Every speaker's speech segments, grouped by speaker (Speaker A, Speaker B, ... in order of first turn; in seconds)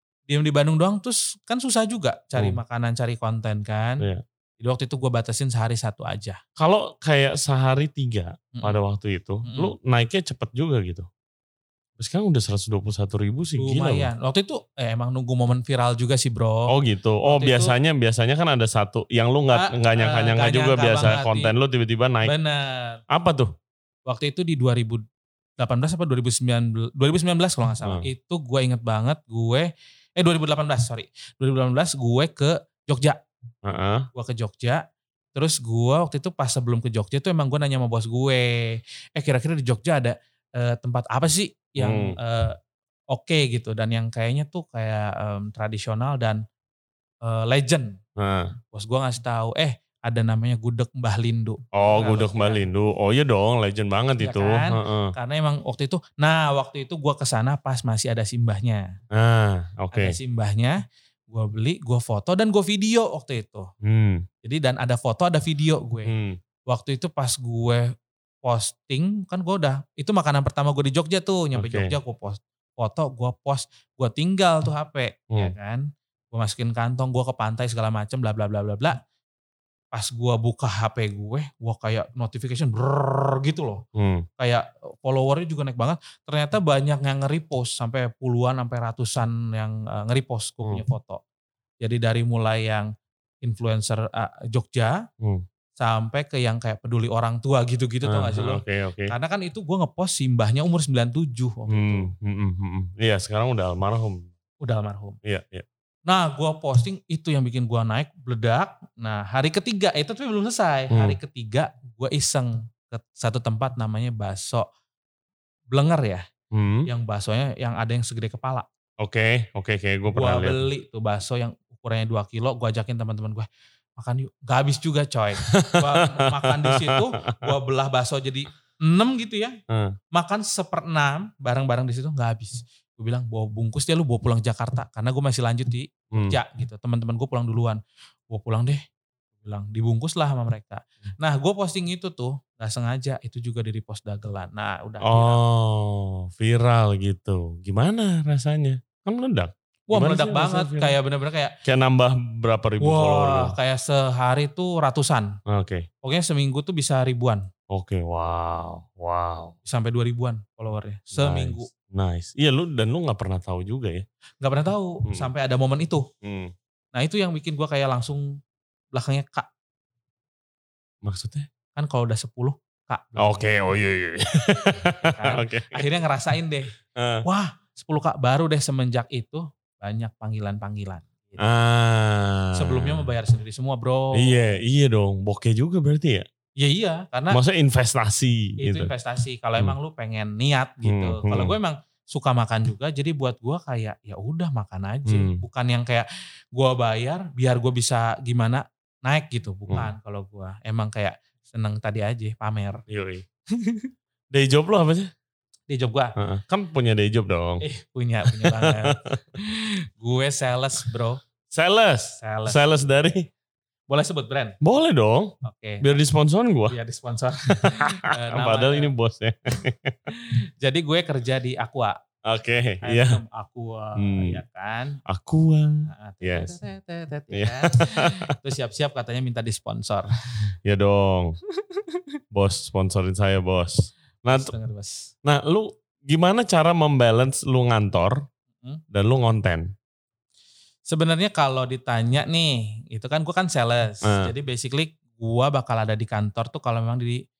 Speaker A: 0.3-4.1, 4.6-6.4, 8.6-8.8, 9.4-9.7, 13.6-16.7, 17.2-17.7, 19.5-21.5, 22.2-23.0, 24.1-25.0, 25.6-33.2, 34.1-34.8, 35.4-42.6, 43.1-46.4, 47.2-48.0, 48.7-52.6, 54.2-58.9, 59.9-63.7, 64.4-66.1, 66.7-79.0, 79.9-83.8, 84.4-91.2, 91.8-92.9, 93.4-95.0, 95.8-102.1, 104.6-105.2, 106.1-114.7, 115.7-116.2, 116.9-118.7, 120.1-129.6, 130.1-138.8, 139.4-145.4, 149.9-151.5, 152.8-155.4, 156.0-157.5, 159.7-161.7, 164.4-166.1, 166.9-168.4, 168.9-169.5, 171.8-173.8, 174.7-176.7, 177.2-181.4, 182.6-184.4, 186.6-187.4, 188.6-202.8, 203.5-203.9, 205.7-206.1, 207.6-211.2, 212.2-212.7, 213.9-214.6, 215.4-215.8, 216.7-218.9, 220.1-222.0, 222.8-225.0, 225.9-230.1, 231.6-232.1, 234.3-235.1, 240.9-247.2
Speaker B: 6.6-11.1, 12.0-14.1, 16.7-22.3, 23.1-23.5, 33.6-34.1, 41.8-42.2, 48.2-48.5, 51.7-55.1, 59.1-60.2, 63.8-64.2, 66.1-66.4, 71.5-72.0, 84.0-84.3, 98.0-99.1, 101.7-104.3, 105.2-105.7, 110.9-111.2, 116.5-116.9, 119.0-120.7, 125.4-127.5, 129.7-130.0, 136.1-136.4, 145.0-151.0, 151.6-153.6, 155.5-155.9, 157.7-159.6, 161.1-164.1, 166.2-166.5, 171.0-171.5, 173.2-175.9, 177.0-177.3, 181.4-183.1, 184.1-186.3, 187.3-188.9, 190.8-191.6, 195.1-195.4, 202.9-203.2, 204.3-205.1, 206.2-207.7, 208.2-209.2, 211.5-213.3, 214.6-216.8, 217.5-220.2, 222.2-223.2, 224.0-224.4, 225.1-226.6, 227.3-228.3, 230.6-231.4, 232.3-234.5, 235.2-238.3, 238.9-239.7, 244.0-244.3